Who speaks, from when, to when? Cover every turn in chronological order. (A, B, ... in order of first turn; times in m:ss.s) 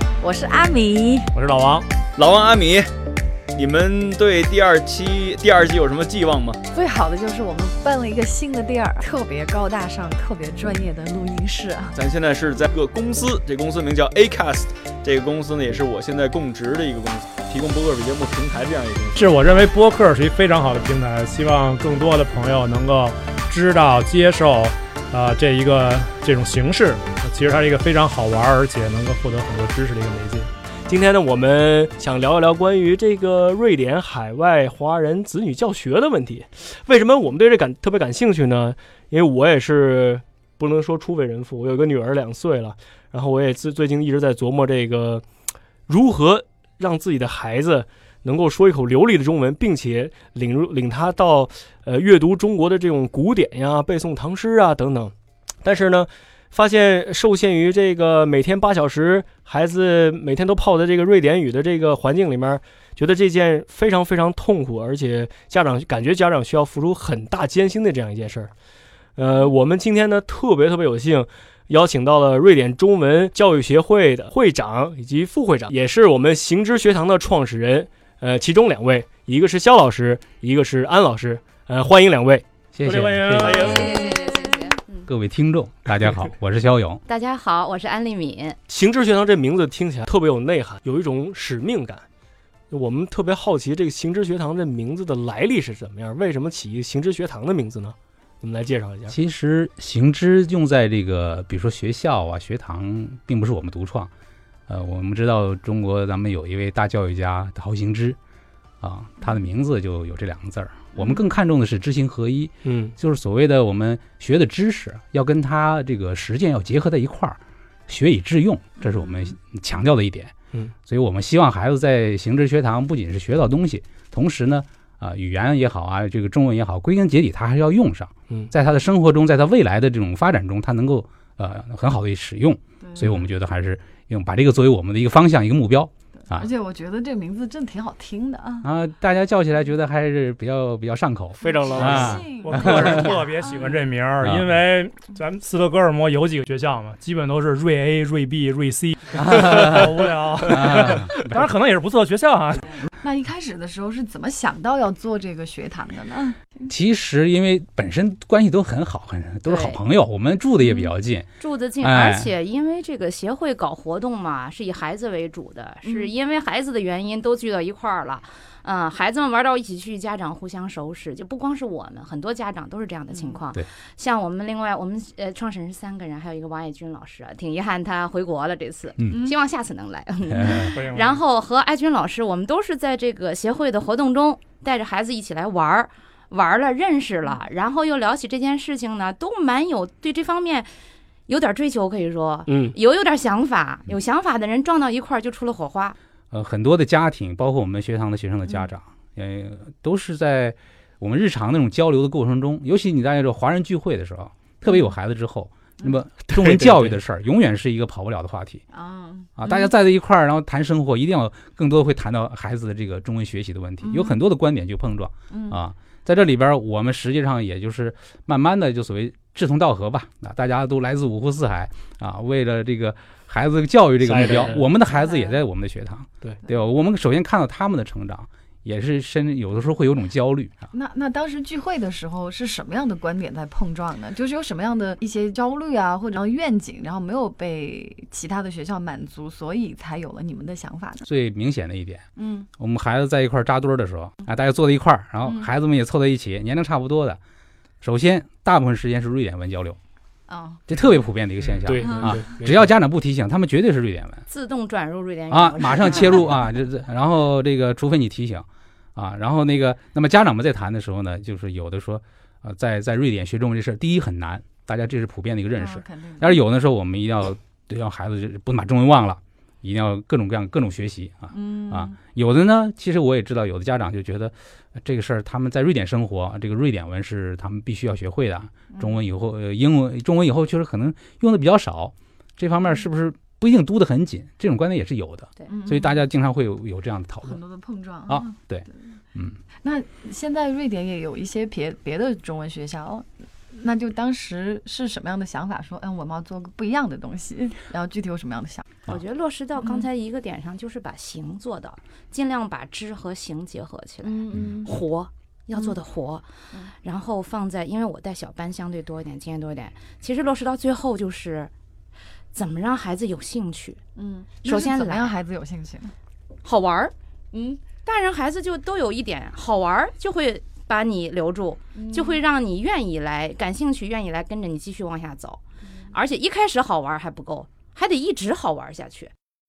0:00.2-0:01.3 A
0:01.3-0:01.9 B
0:02.2-0:02.9 C
0:03.5-0:06.6 C
0:06.7-0:12.0 A
0:12.0-0:19.2 C
0:19.2-0:30.5 B
0:30.9-0:45.2 D
0:45.9-0:55.1 D
0:55.6-1:08.5 D
1:09.2-1:22.4 D
1:22.8-1:23.9 E
1:22.8-1:23.9 B
1:23.4-1:25.1 F
1:23.8-1:24.6 A
1:25.1-1:27.0 E
1:27.1-1:28.6 F
1:28.7-1:32.0 D
1:32.7-1:39.2 D
1:39.1-1:44.1 E
1:44.7-1:48.2 E
1:48.8-2:16.5 E
1:52.6-1:52.9 D
1:58.8-1:59.3 A
2:12.8-2:13.2 A
2:16.3-2:18.7 A
2:18.6-2:23.1 E
2:21.4-2:22.2 D
2:21.7-2:23.7 A
2:22.4-2:32.7 B
2:24.2-2:24.6 E
2:29.1-2:31.5 E
2:33.0-2:36.5 A
2:36.7-2:42.3 E
2:39.5-2:39.8 F
2:41.4-3:10.7 F
2:45.8-2:46.1 A
2:59.0-2:59.3 E
3:00.3-3:00.7 E
3:00.8-3:01.2 B
3:11.3-3:16.0 F
3:12.5-3:12.8 D
3:16.3-3:28.6 E
3:26.3-3:26.9 D
3:28.7-3:29.7 A
3:29.4-3:50.7 E
3:33.8-3:34.2 A
3:35.3-3:35.6 A
3:44.0-3:44.7 D
3:44.9-3:45.4 A
3:50.7-4:01.0 A
4:01.1-4:02.1 E
4:02.2-4:02.5 A
4:02.6-4:07.2 E
4:07.8-4:09.8 E
4:10.3-4:10.6 A
4:10.7-4:14.3 E
4:11.6-4:12.7 D
4:11.9-4:12.2 A
4:14.3-4:16.2 F
4:15.3-4:47.4 E
4:25.6-4:26.4 A
4:31.3-4:32.0 A
4:45.5-4:46.0 A
4:47.2-4:48.4 A
4:48.1-4:49.4 E
4:49.6-4:58.7 A
4:58.9-5:06.3 F
5:04.0-5:04.7 A
5:06.8-5:11.5 F
5:12.4-5:13.8 F
5:14.0-5:15.9 A
5:14.4-5:15.1 F
5:16.4-5:16.9 F
5:17.3-5:17.6 A
5:17.8-5:25.4 F
5:21.8-5:22.2 A
5:25.9-5:29.1 F